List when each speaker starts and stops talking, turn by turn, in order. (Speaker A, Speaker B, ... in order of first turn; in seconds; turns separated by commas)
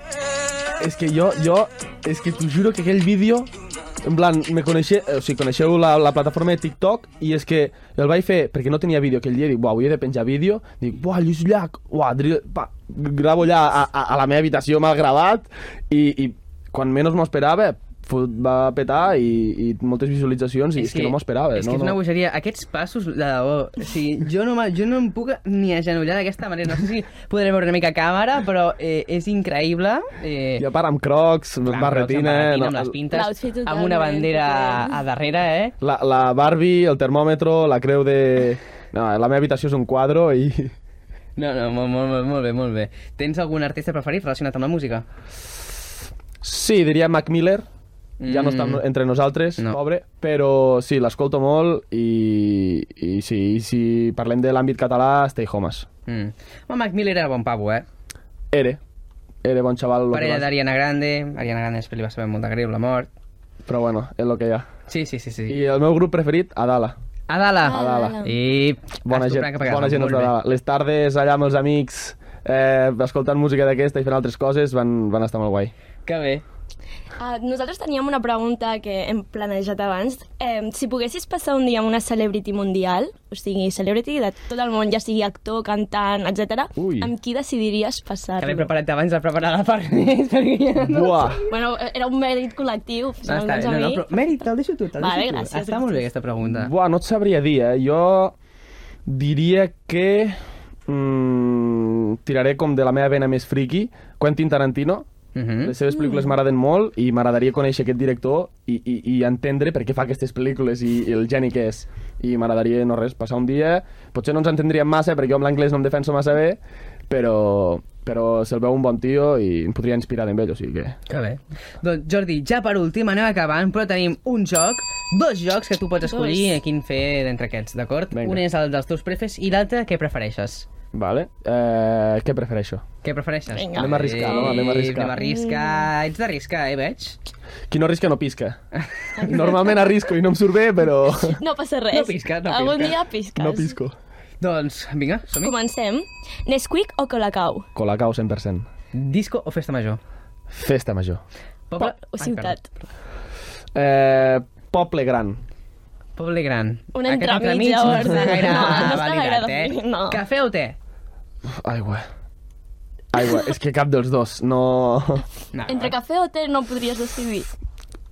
Speaker A: 0.8-3.5, Speaker A: 4.1-22.0, Speaker B: 20.8-30.7, Speaker A: 30.6-33.0, Speaker B: 31.6-35.7, Speaker C: 33.1-35.0, Speaker A: 35.8-40.7, Speaker B: 41.4-45.1, Speaker A: 46.4-47.7, Speaker B: 48.2-48.9, Speaker A: 48.3-55.9, Speaker B: 56.1-57.9, Speaker A: 58.5-58.8, Speaker A: 59.4-60.5, Speaker B: 60.1-63.1, Speaker A: 63.7-64.7, Speaker B: 64.9-65.6, Speaker A: 65.5-67.0, Speaker B: 67.3-70.4, Speaker C: 67.6-68.3, Speaker A: 67.7-68.2, Speaker A: 69.0-75.7, Speaker B: 76.1-76.4, Speaker C: 77.2-88.7, Speaker A: 86.8-87.1, Speaker B: 88.4-91.4, Speaker A: 90.8-91.4, Speaker C: 91.5-94.1, Speaker B: 93.2-96.7, Speaker C: 95.0-96.0, Speaker A: 96.5-98.4, Speaker A: 99.1-105.1, Speaker B: 105.3-105.8, Speaker A: 105.6-121.0, Speaker C: 106.0-106.3, Speaker B: 121.1-130.7, Speaker C: 126.0-126.6, Speaker A: 128.1-128.4, Speaker A: 130.9-132.8, Speaker B: 133.0-137.2, Speaker C: 133.5-135.9, Speaker A: 133.8-135.2, Speaker A: 137.7-138.6, Speaker C: 139.2-140.0, Speaker A: 139.2-141.4, Speaker C: 141.1-143.8, Speaker B: 141.9-143.0, Speaker A: 143.4-143.9, Speaker B: 144.4-145.5, Speaker C: 145.4-147.7, Speaker A: 147.8-148.7, Speaker B: 148.9-150.0, Speaker A: 150.5-151.2, Speaker B: 151.7-152.6, Speaker C: 151.8-152.7, Speaker A: 153.8-155.4, Speaker B: 156.2-160.8, Speaker C: 156.9-160.2, Speaker A: 158.1-158.7, Speaker A: 161.5-162.1, Speaker A: 163.1-165.3, Speaker C: 163.2-163.5, Speaker B: 165.5-165.9, Speaker C: 165.7-167.5